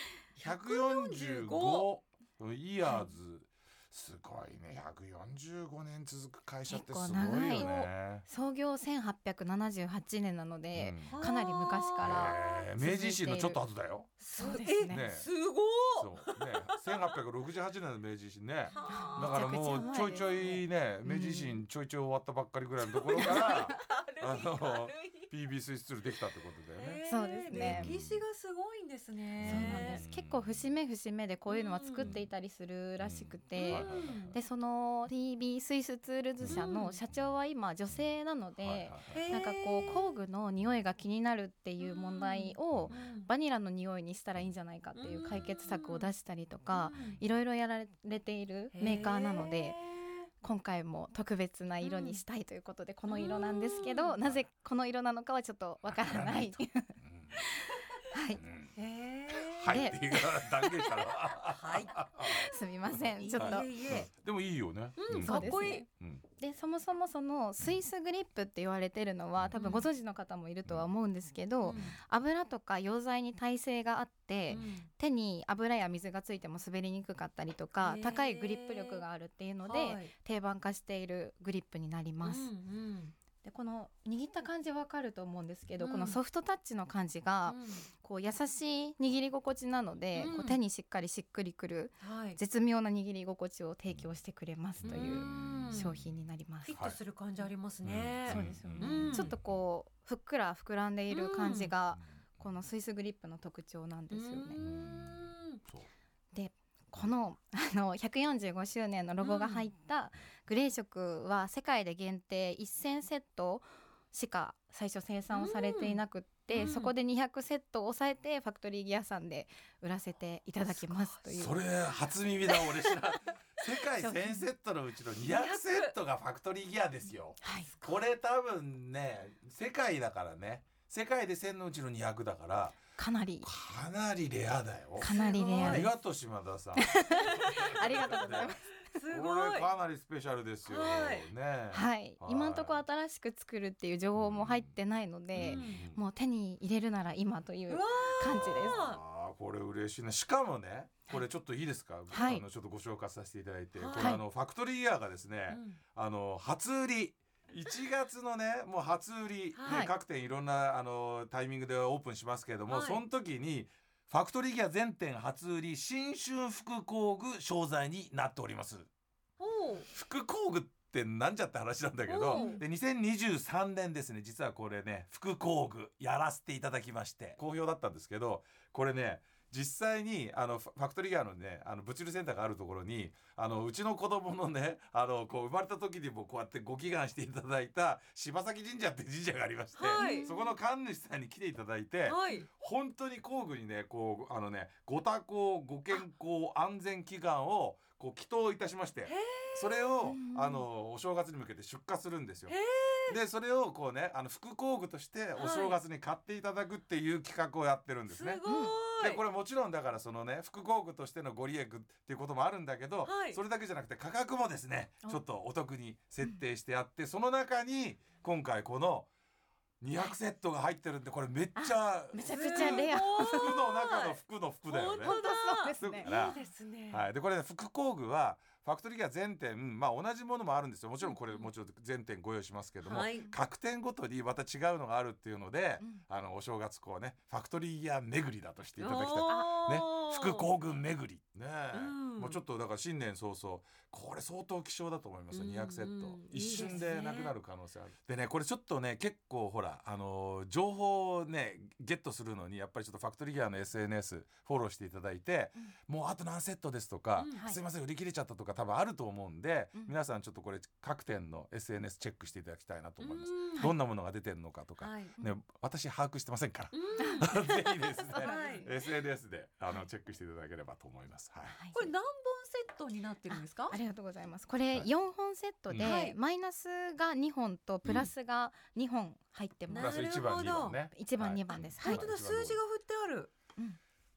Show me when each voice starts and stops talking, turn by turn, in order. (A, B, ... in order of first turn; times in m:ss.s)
0:00.4-0:01.9 A
0:00.4-0:08.2 B
0:06.7-0:13.6 C
0:07.2-0:07.9 A
0:10.7-0:11.2 B
0:11.0-0:12.6 A
0:12.0-0:14.2 B
0:14.2-0:17.1 A
0:14.4-0:15.0 C
0:14.8-0:15.3 B
0:16.0-0:28.2 B
0:18.7-0:20.1 A
0:18.9-0:21.6 C
0:23.0-0:25.3 A
0:23.1-0:23.8 C
0:26.8-0:30.0 A
0:27.1-0:27.9 C
0:29.4-0:30.7 B
0:29.4-0:49.8 C
0:31.5-0:32.2 A
0:32.0-0:32.3 B
0:33.0-0:34.3 B
0:33.6-0:34.4 A
0:36.5-0:37.0 A
0:38.6-0:39.3 B
0:39.1-0:40.0 A
0:41.8-0:43.3 A
0:45.0-0:46.1 A
0:46.8-0:47.2 A
0:48.7-0:50.2 A
0:50.4-0:58.4 C
0:51.8-0:52.2 A
0:53.1-0:54.2 A
0:55.9-0:57.4 B
0:58.4-0:58.7 B
0:58.8-0:59.9 A
0:59.3-1:02.5 B
0:59.6-1:01.1 C
1:01.5-1:02.0 A
1:02.2-1:03.7 C
1:03.2-1:04.1 A
1:03.4-1:06.2 B
1:05.0-1:05.8 A
1:05.1-1:05.9 C
1:06.4-1:22.5 C
1:09.4-1:09.6 B
1:09.5-1:09.9 A
1:11.6-1:12.0 A
1:14.5-1:14.9 A
1:17.8-1:19.0 A
1:19.6-1:20.1 A
1:22.2-1:23.1 A
1:23.4-1:36.8 C
1:25.8-1:26.2 A
1:27.5-1:27.9 A
1:30.1-1:30.6 A
1:32.0-1:32.4 A
1:34.8-1:36.0 B
1:34.9-1:36.0 A
1:36.6-1:39.3 A
1:37.8-1:39.3 B
1:38.3-1:44.6 C
1:41.1-1:41.7 A
1:44.1-1:45.6 A
1:44.6-1:45.9 B
1:46.3-2:01.6 C
1:49.2-1:49.7 A
1:55.3-1:56.0 A
1:56.5-1:56.9 A
2:00.9-2:01.2 A
2:01.3-2:12.8 B
2:02.5-2:03.0 A
2:04.0-2:04.5 C
2:05.2-2:05.9 A
2:07.4-2:07.7 C
2:13.0-2:13.5 C
2:13.4-2:18.5 B
2:15.0-2:15.9 A
2:15.0-2:15.9 C
2:16.8-2:18.6 C
2:17.2-2:18.0 A
2:18.8-2:19.7 A
2:19.1-2:22.8 B
2:20.7-2:21.3 A
2:21.7-2:28.8 C
2:24.2-2:24.7 B
2:25.4-2:26.0 B
2:25.4-2:25.8 A
2:27.7-2:29.0 A
2:28.3-2:48.9 B
2:32.1-2:32.4 C
2:33.8-2:34.2 A
2:34.0-2:34.2 C
2:35.5-2:35.8 A
2:39.5-2:39.8 A
2:39.6-2:39.9 C
2:42.7-2:43.0 A
2:49.4-2:49.9 A
2:49.9-3:22.6 B
2:52.1-2:52.6 A
2:52.3-2:52.6 C
3:09.8-3:10.3 A
3:10.0-3:10.4 C
3:12.1-3:12.5 A
3:19.1-3:19.9 A
3:20.0-3:20.6 C
3:22.5-3:23.2 A
3:23.1-3:28.4 B
3:25.4-3:25.8 A
3:28.1-3:29.2 A
3:28.5-3:28.8 C
3:29.0-3:39.1 B
3:33.0-3:33.4 A
3:39.8-3:45.2 B
3:41.6-3:43.6 C
3:42.3-3:47.0 A
3:45.0-3:46.4 C
3:45.8-3:46.4 B
3:46.9-4:31.6 B
3:51.0-3:51.4 A
3:52.8-3:53.3 A
3:53.0-3:53.4 C
3:58.8-4:00.5 A
4:01.7-4:02.4 A
4:05.3-4:07.3 A
4:17.2-4:17.4 A
4:17.3-4:17.6 C
4:23.0-4:23.7 A
4:24.8-4:25.1 A
4:26.7-4:27.3 A
4:27.0-4:28.9 C
4:28.1-4:28.7 A
4:31.5-4:31.9 C
4:31.7-4:33.8 A
4:33.3-4:40.0 C
4:35.7-4:36.0 B
4:35.8-4:36.2 A
4:39.7-4:40.8 A
4:39.8-4:42.6 B
4:40.9-4:42.0 C
4:41.8-4:43.3 A